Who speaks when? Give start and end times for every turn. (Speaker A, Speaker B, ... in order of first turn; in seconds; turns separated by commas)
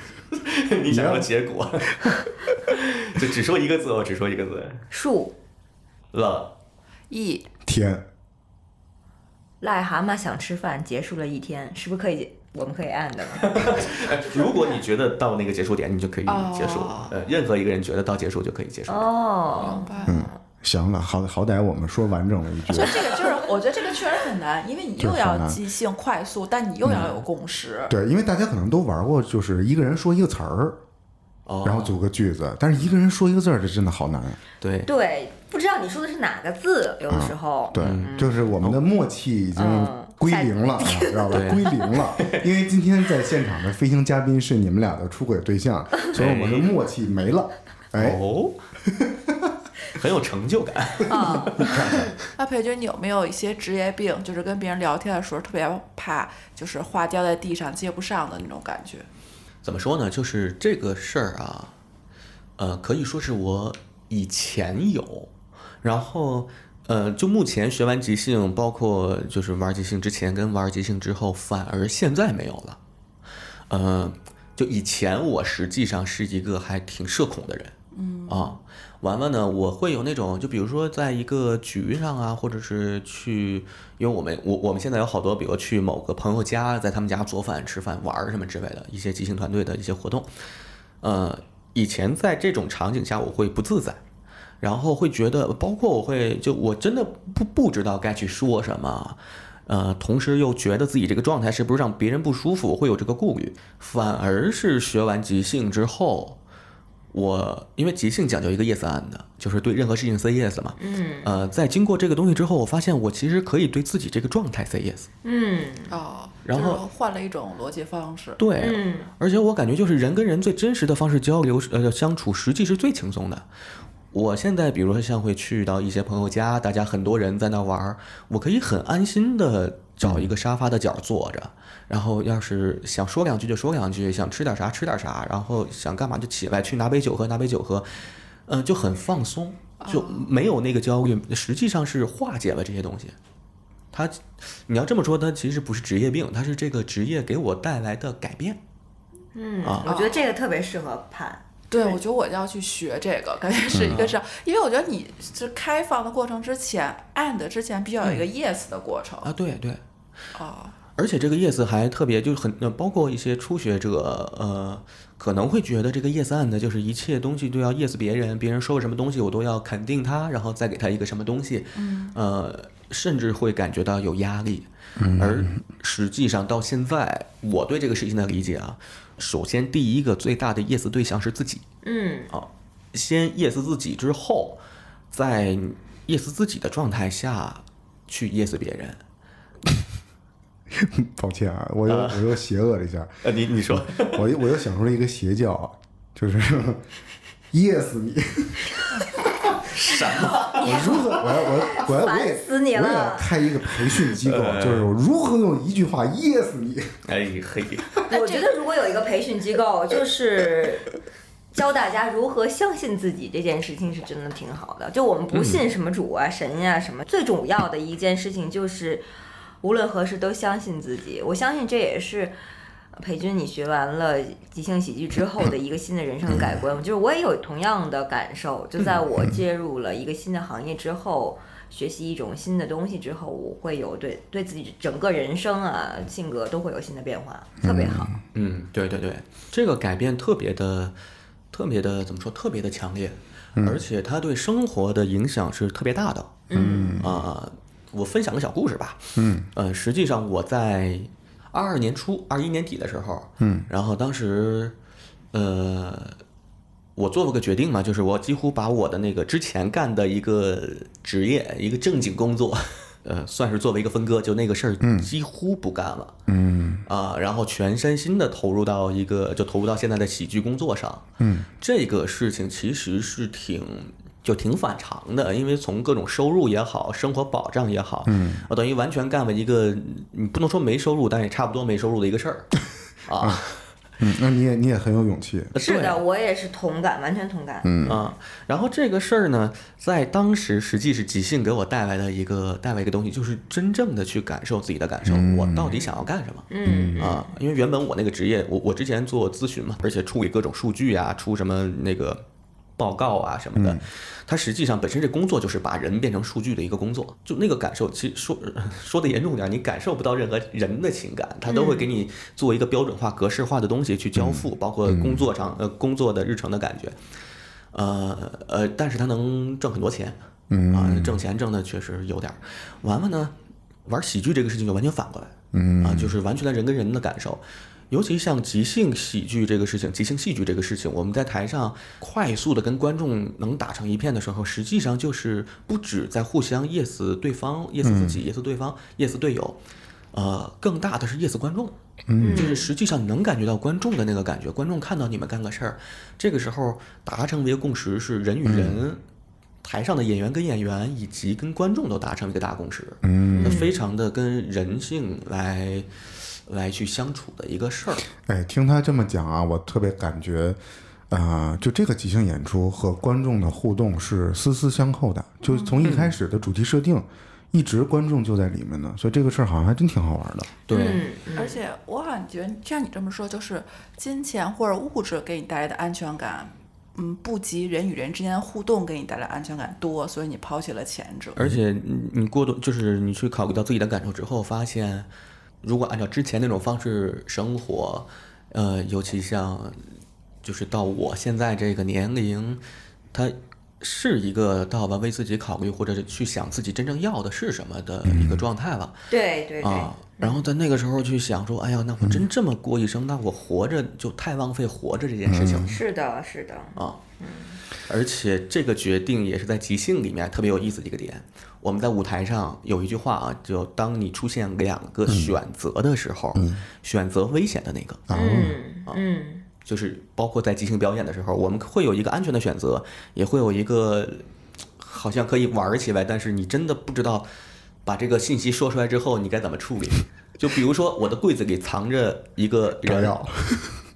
Speaker A: 0.3-4.8, Speaker B: 0.9-1.3, Speaker C: 4.9-5.3, Speaker A: 6.1-6.5, Speaker D: 7.1-7.5, Speaker B: 7.6-8.0, Speaker C: 9.6-13.6, Speaker A: 13.4-19.8, Speaker D: 14.3-14.8, Speaker D: 16.3-17.2, Speaker C: 18.9-20.0, Speaker D: 19.6-20.3, Speaker B: 20.0-23.0, Speaker D: 22.7-27.9, Speaker B: 25.0-25.6, Speaker B: 26.8-27.2, Speaker B: 27.9-30.8, Speaker A: 31.4-32.0, Speaker B: 31.6-34.4, Speaker A: 34.6-34.9, Speaker C: 34.9-38.5, Speaker B: 37.1-48.2, Speaker A: 37.8-38.8, Speaker C: 39.5-41.8, Speaker A: 41.3-42.5, Speaker A: 46.1-46.7, Speaker A: 47.9-48.5, Speaker B: 48.8-49.5, Speaker A: 49.9-52.0, Speaker C: 51.1-51.9, Speaker B: 51.6-52.1, Speaker D: 52.4-59.1, Speaker A: 59.6-61.7, Speaker A: 62.6-65.3, Speaker A: 65.8-72.8, Speaker A: 73.7-77.7, Speaker D: 77.9-78.6, Speaker A: 78.3-90.3, Speaker A: 91.0-94.0, Speaker A: 94.6-106.4, Speaker A: 107.1-115.1, Speaker C: 110.8-111.3, Speaker C: 115.2-116.0, Speaker D: 115.9-118.4, Speaker A: 116.4-116.8, Speaker A: 118.4-123.5, Speaker C: 118.6-119.1, Speaker A: 124.1-137.9, Speaker A: 138.5-143.1, Speaker D: 139.8-140.3, Speaker A: 143.9-148.6, Speaker C: 149.3-151.4, Speaker A: 149.6-149.9, Speaker D: 149.8-150.3, Speaker D: 151.7-159.3, Speaker B: 153.7-154.0, Speaker A: 153.9-154.2, Speaker A: 159.2-159.8, Speaker D: 160.3-160.8, Speaker A: 161.0-181.6, Speaker D: 171.8-172.2, Speaker B: 175.0-175.5, Speaker C: 181.8-182.3, Speaker A: 182.3-184.6, Speaker A: 185.1-189.0, Speaker B: 190.7-196.8, Speaker A: 191.8-192.3, Speaker A: 193.2-194.3, Speaker B: 197.5-199.6, Speaker A: 199.6-201.4, Speaker B: 200.4-206.9, Speaker C: 201.7-203.3, Speaker A: 204.0-204.9, Speaker A: 207.1-208.0, Speaker C: 208.1-210.9, Speaker C: 211.5-219.0, Speaker A: 215.3-215.6, Speaker C: 219.6-222.3, Speaker C: 222.9-238.2, Speaker B: 226.3-226.6, Speaker B: 237.6-238.2, Speaker A: 238.3-240.9, Speaker A: 241.5-246.4, Speaker B: 243.6-243.8, Speaker C: 246.5-247.0, Speaker B: 246.5-247.2, Speaker A: 247.0-254.8, Speaker B: 249.2-249.5, Speaker B: 253.4-253.7, Speaker A: 255.3-256.2, Speaker A: 256.9-266.1, Speaker B: 264.8-265.1, Speaker B: 266.3-266.8, Speaker A: 266.9-271.1, Speaker B: 271.2-271.5, Speaker A: 271.6-282.5, Speaker B: 278.1-278.4, Speaker A: 283.0-283.5, Speaker B: 284.0-285.5, Speaker A: 285.5-286.0, Speaker C: 285.6-287.7, Speaker B: 287.6-288.0, Speaker A: 287.8-302.2, Speaker B: 295.0-295.8, Speaker C: 296.5-297.2, Speaker B: 296.6-297.1, Speaker A: 302.8-316.9, Speaker B: 303.6-303.8, Speaker C: 311.4-311.9, Speaker B: 314.1-315.2, Speaker A: 317.7-320.2, Speaker B: 320.5-321.2, Speaker A: 320.7-323.3, Speaker A: 323.8-339.6, Speaker B: 325.5-326.1, Speaker B: 337.8-338.2, Speaker A: 340.1-349.0, Speaker B: 342.1-342.5, Speaker C: 342.2-342.7, Speaker B: 348.4-348.8, Speaker A: 349.6-358.1, Speaker B: 353.0-353.7, Speaker C: 353.3-353.7, Speaker B: 358.2-360.6, Speaker B: 361.1-370.5, Speaker A: 365.8-366.1, Speaker A: 370.7-371.1, Speaker C: 370.7-371.6, Speaker D: 371.4-381.4, Speaker A: 381.4-385.1, Speaker A: 385.6-389.9, Speaker A: 390.4-392.6, Speaker A: 393.1-399.1, Speaker B: 398.0-398.4, Speaker C: 399.1-400.4, Speaker A: 399.6-405.8, Speaker B: 405.3-405.7, Speaker C: 405.6-407.6, Speaker A: 407.9-418.0, Speaker B: 415.1-415.4, Speaker B: 416.3-416.6, Speaker B: 418.1-418.6, Speaker C: 418.1-419.4, Speaker A: 419.6-424.2, Speaker A: 424.8-427.2, Speaker A: 427.8-433.3, Speaker B: 432.8-433.8